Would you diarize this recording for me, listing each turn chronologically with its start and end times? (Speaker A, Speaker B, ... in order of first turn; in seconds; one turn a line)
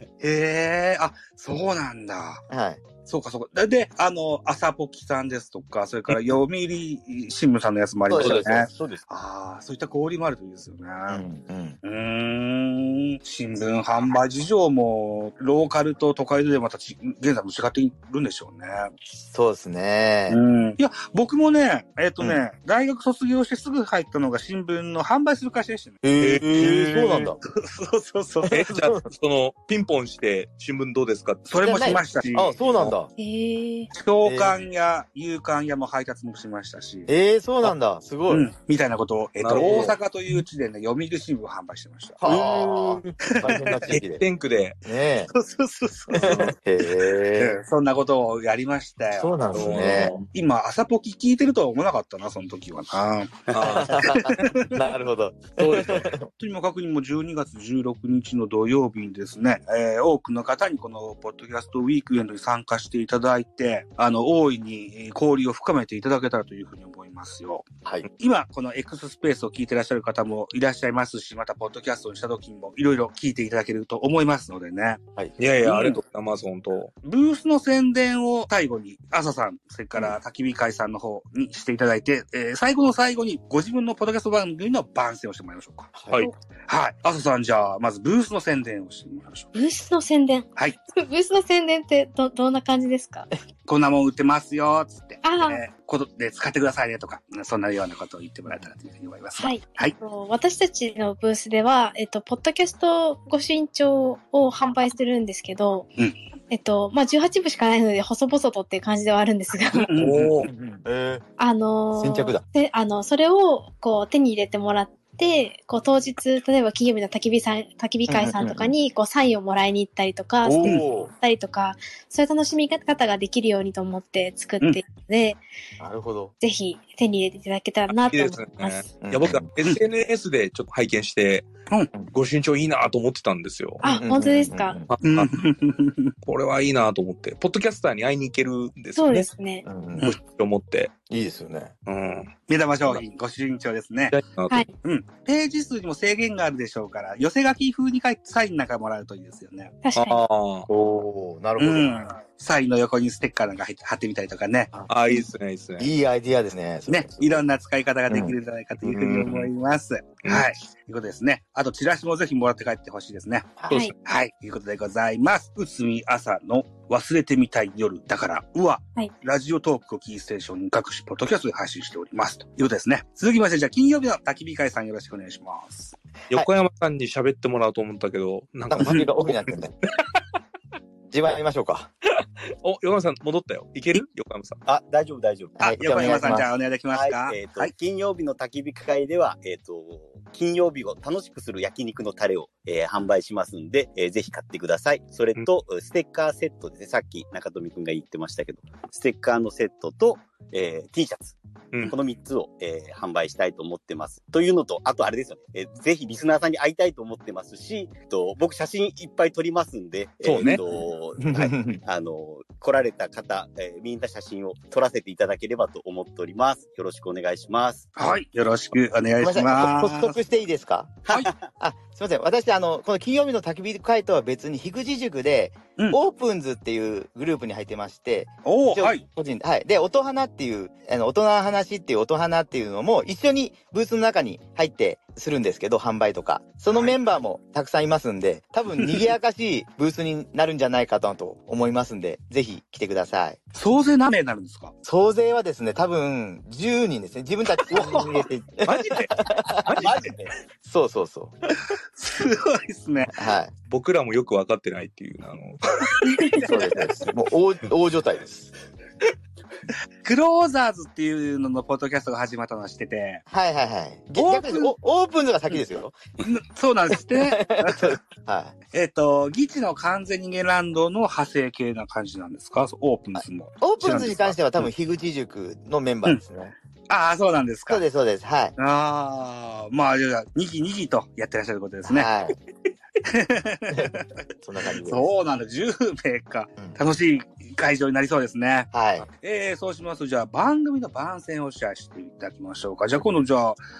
Speaker A: 0.2-2.4
Speaker B: 2.5-2.8
Speaker A: 3.0-11.2
Speaker B: 8.1-8.7
Speaker C: 8.2-8.4
Speaker D: 8.7-9.0
Speaker B: 11.1-11.8
Speaker A: 11.8-18.9
Speaker B: 19.2-20.4
Speaker A: 20.3-26.0
Speaker B: 26.0-27.4
Speaker C: 26.2-27.1
Speaker A: 26.6-28.8
Speaker B: 28.4-29.0
Speaker C: 28.5-32.9
Speaker A: 31.5-32.8
Speaker B: 31.6-33.1
Speaker E: 33.2-33.9
Speaker A: 33.9-37.1
Speaker B: 34.2-34.5
Speaker B: 37.1-38.5
Speaker A: 38.3-42.2
Speaker C: 39.4-40.0
Speaker B: 39.6-40.4
Speaker B: 42.2-44.2
Speaker D: 42.2-43.1
Speaker A: 43.4-43.9
Speaker C: 43.9-44.8
Speaker B: 44.8-45.3
Speaker A: 45.3-46.5
Speaker B: 46.2-47.6
Speaker C: 46.2-46.5
Speaker A: 47.4-54.8
Speaker B: 49.1-50.2
Speaker C: 49.5-50.2
Speaker C: 53.5-54.1
Speaker B: 53.6-56.3
Speaker C: 55.6-56.1
Speaker A: 56.3-67.7
Speaker A: 68.2-75.0
Speaker C: 75.4-76.9
Speaker A: 75.6-76.0
Speaker A: 77.0-85.9
Speaker B: 85.9-86.3
Speaker A: 86.7-89.5
Speaker E: 89.5-93.3
Speaker A: 93.7-99.9
Speaker E: 95.2-95.6
Speaker E: 99.4-105.9
Speaker E: 106.5-109.9
Speaker A: 109.7-110.5
Speaker C: 110.0-110.5
Speaker B: 110.4-111.2
Speaker E: 111.4-125.4
Speaker B: 111.9-112.4
Speaker B: 118.1-118.7
Speaker B: 120.4-121.1
Speaker B: 125.8-126.3
Speaker E: 126.4-128.9
Speaker C: 127.9-131.5
Speaker B: 129.0-129.5
Speaker C: 132.1-133.8
Speaker B: 133.8-134.9
Speaker E: 133.8-134.8
Speaker C: 134.9-135.3
Speaker A: 135.0-136.1
Speaker C: 136.2-139.3
Speaker E: 138.9-139.6
Speaker B: 139.6-140.1
Speaker C: 140.0-140.9
Speaker B: 141.1-141.7
Speaker C: 141.8-142.3
Speaker A: 142.5-144.2
Speaker C: 144.1-144.6
Speaker A: 144.8-149.8
Speaker E: 149.8-150.2
Speaker C: 149.9-150.7
Speaker B: 150.7-152.1
Speaker A: 151.6-154.7
Speaker B: 154.7-155.2
Speaker C: 154.9-155.9
Speaker B: 155.8-157.4
Speaker A: 156.9-175.9
Speaker B: 158.1-158.3
Speaker C: 158.8-159.5
Speaker C: 163.7-163.9
Speaker C: 176.3-179.4
Speaker B: 178.7-179.7
Speaker B: 181.1-181.9
Speaker C: 182.6-184.6
Speaker D: 184.6-186.2
Speaker B: 185.6-186.5
Speaker A: 185.6-187.7
Speaker D: 186.9-217.9
Speaker C: 210.2-210.6
Speaker B: 211.2-211.8
Speaker A: 217.9-220.2
Speaker B: 219.2-243.4
Speaker D: 221.1-221.5
Speaker A: 228.4-229.0
Speaker A: 243.5-244.7
Speaker B: 244.8-249.4
Speaker A: 247.7-249.1
Speaker C: 248.7-249.1
Speaker C: 249.6-250.0
Speaker D: 249.6-250.3
Speaker A: 249.8-250.1
Speaker B: 250.6-251.4
Speaker A: 252.0-253.1
Speaker B: 253.1-253.5
Speaker C: 253.7-255.6
Speaker E: 256.1-256.4
Speaker A: 256.2-256.9
Speaker B: 256.4-258.5
Speaker A: 260.0-263.2
Speaker B: 263.3-266.0
Speaker A: 264.1-264.7
Speaker A: 266.2-268.0
Speaker B: 267.2-268.5
Speaker A: 268.7-274.7
Speaker B: 273.6-276.5
Speaker A: 276.9-277.8
Speaker B: 277.7-278.5
Speaker A: 278.6-282.1
Speaker B: 281.9-282.3
Speaker A: 283.0-284.1
Speaker B: 284.4-285.1
Speaker A: 284.8-293.6
Speaker B: 288.7-289.1